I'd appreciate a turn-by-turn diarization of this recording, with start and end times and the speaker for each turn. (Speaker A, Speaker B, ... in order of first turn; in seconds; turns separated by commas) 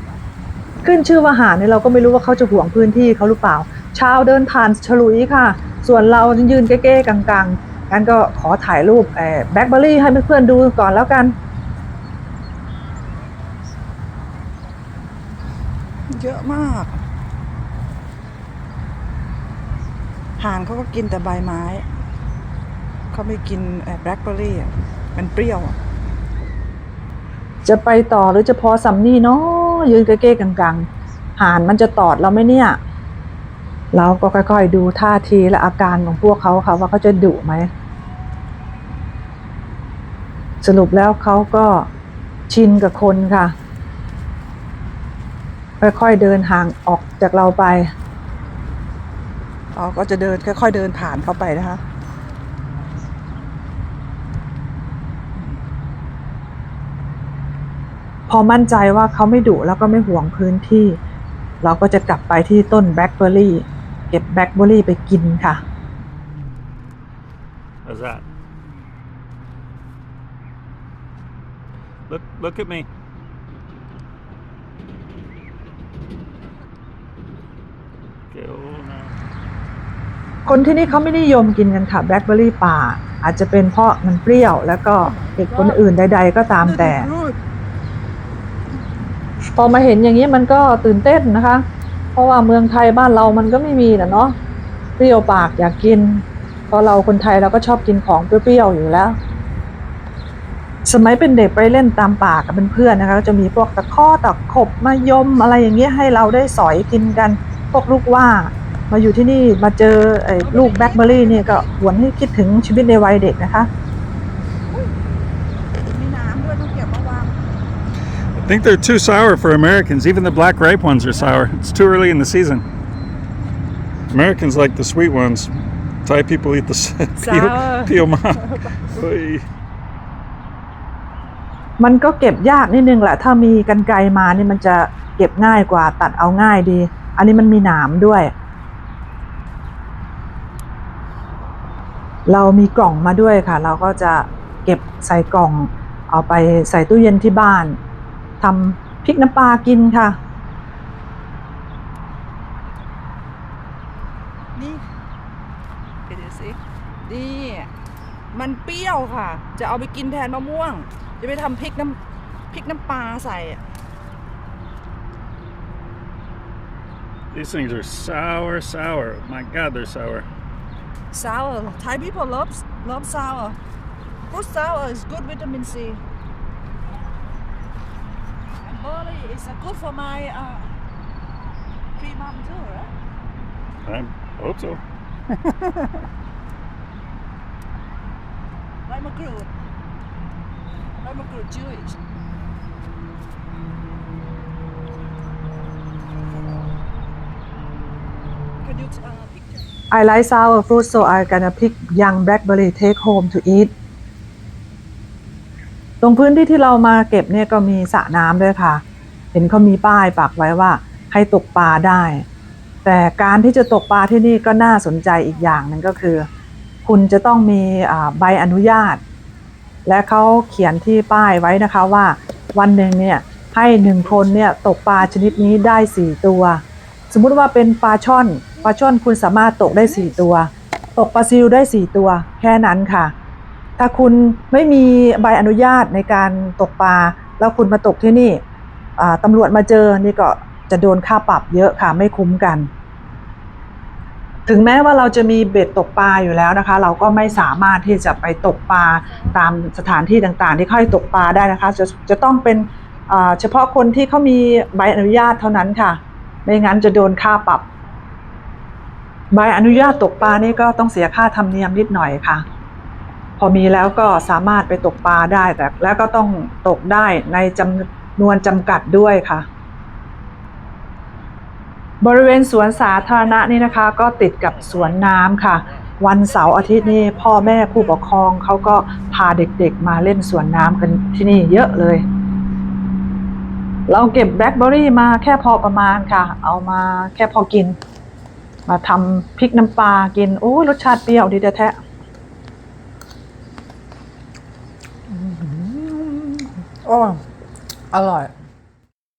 Speaker A: 0.8-11.3, Speaker B: 16.1-17.0, Speaker B: 20.4-21.8, Speaker B: 23.1-25.8, Speaker A: 27.6-32.8, Speaker A: 33.9-37.7, Speaker A: 40.6-41.9, Speaker A: 42.5-43.5, Speaker A: 45.8-47.9, Speaker B: 49.7-51.8, Speaker A: 58.3-61.0, Speaker A: 61.6-65.6, Speaker C: 67.8-68.2, Speaker C: 72.1-72.9, Speaker C: 78.3-79.1, Speaker A: 80.5-87.1, Speaker B: 85.0-85.8, Speaker B: 86.6-87.4, Speaker A: 89.5-94.3, Speaker A: 95.0-99.2, Speaker A: 100.8-113.7, Speaker B: 110.4-111.7, Speaker B: 115.8-117.4, Speaker C: 118.3-122.6, Speaker C: 124.1-129.4, Speaker B: 127.2-128.8, Speaker A: 131.8-138.3, Speaker A: 142.3-147.8, Speaker A: 148.4-150.2, Speaker B: 154.6-154.8, Speaker B: 156.1-157.7, Speaker B: 158.3-162.0, Speaker B: 162.5-163.6, Speaker C: 167.3-170.3, Speaker B: 171.1-173.6, Speaker B: 174.3-176.0, Speaker B: 178.6-180.7, Speaker B: 182.0-182.9, Speaker C: 183.8-186.0, Speaker B: 188.9-189.5, Speaker B: 191.0-191.9, Speaker B: 198.6-199.6, Speaker A: 199.9-203.7, Speaker A: 206.0-208.8, Speaker A: 209.3-212.2, Speaker A: 212.8-216.3, Speaker A: 216.8-219.0, Speaker A: 219.8-233.1, Speaker A: 233.8-238.4, Speaker A: 239.0-242.7, Speaker A: 244.4-257.6, Speaker A: 259.3-262.4, Speaker A: 263.4-269.4, Speaker A: 272.0-282.0, Speaker A: 283.9-287.8, Speaker A: 288.7-291.8, Speaker B: 295.1-297.2, Speaker B: 297.9-298.3